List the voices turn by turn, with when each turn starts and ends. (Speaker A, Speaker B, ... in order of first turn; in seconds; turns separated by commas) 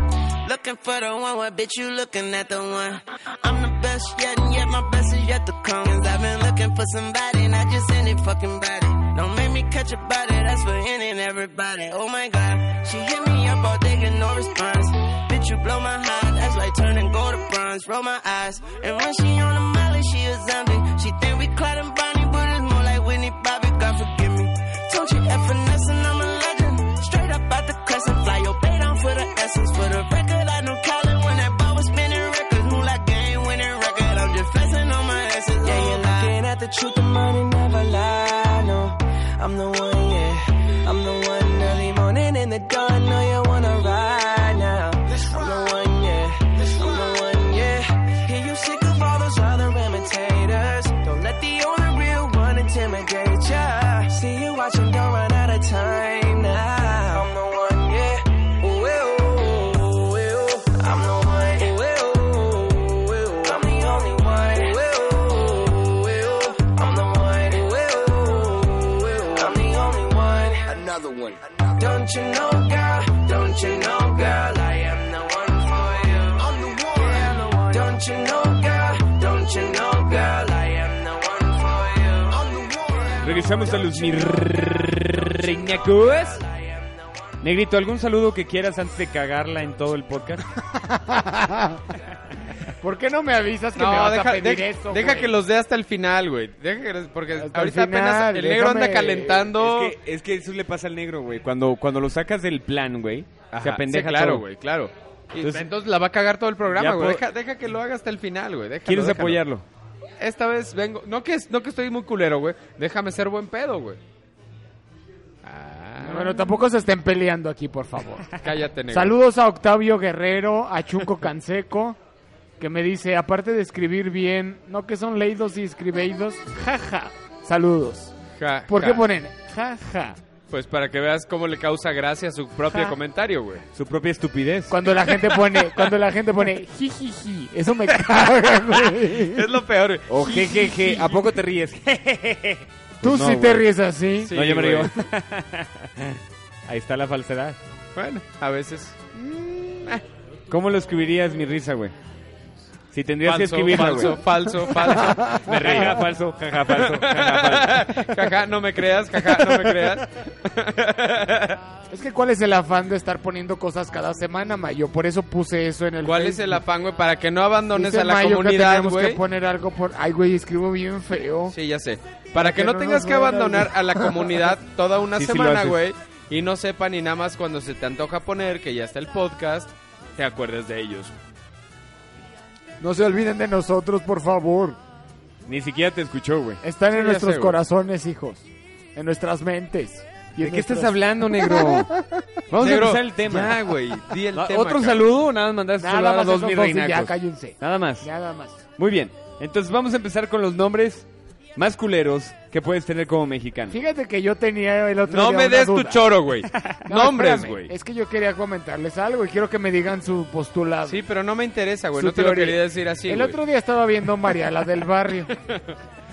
Speaker A: 0.4-36.3, Speaker B: 35.6-70.7, Speaker B: 71.8-84.5, Speaker C: 83.2-86.4, Speaker B: 85.8-87.1, Speaker C: 87.4-90.4, Speaker D: 90.8-91.8, Speaker D: 92.8-95.3, Speaker E: 93.8-99.9, Speaker D: 97.4-99.5, Speaker C: 99.6-104.4, Speaker E: 103.5-109.4, Speaker C: 105.4-105.7, Speaker C: 106.7-107.2, Speaker C: 108.8-109.6, Speaker E: 110.2-114.0, Speaker E: 115.4-116.4, Speaker D: 116.0-118.3, Speaker E: 118.4-119.1, Speaker D: 118.9-122.0, Speaker D: 122.6-128.1, Speaker E: 128.4-129.0, Speaker D: 128.7-130.2, Speaker E: 130.5-133.6, Speaker C: 133.7-134.8, Speaker D: 134.7-139.4, Speaker E: 138.1-141.3, Speaker C: 140.1-143.7, Speaker D: 143.0-144.3, Speaker E: 144.2-144.9, Speaker C: 144.3-147.6, Speaker E: 147.9-149.0, Speaker D: 149.1-149.9, Speaker C: 150.5-151.9, Speaker C: 152.9-154.2, Speaker E: 153.2-156.0, Speaker C: 155.2-157.9, Speaker E: 156.7-161.6, Speaker D: 161.9-166.6, Speaker E: 166.0-169.2, Speaker D: 167.7-171.5, Speaker E: 171.5-181.1, Speaker D: 172.3-174.1, Speaker C: 175.1-175.8, Speaker D: 182.8-184.8, Speaker C: 185.5-186.6, Speaker D: 186.6-191.7, Speaker E: 186.9-187.6, Speaker C: 190.4-191.9, Speaker C: 192.5-193.6, Speaker E: 192.6-195.1, Speaker C: 194.3-198.1, Speaker D: 195.8-198.6, Speaker C: 198.8-203.8, Speaker D: 203.7-206.1, Speaker E: 205.1-207.7, Speaker D: 206.9-211.0, Speaker E: 210.8-213.4, Speaker D: 212.0-215.3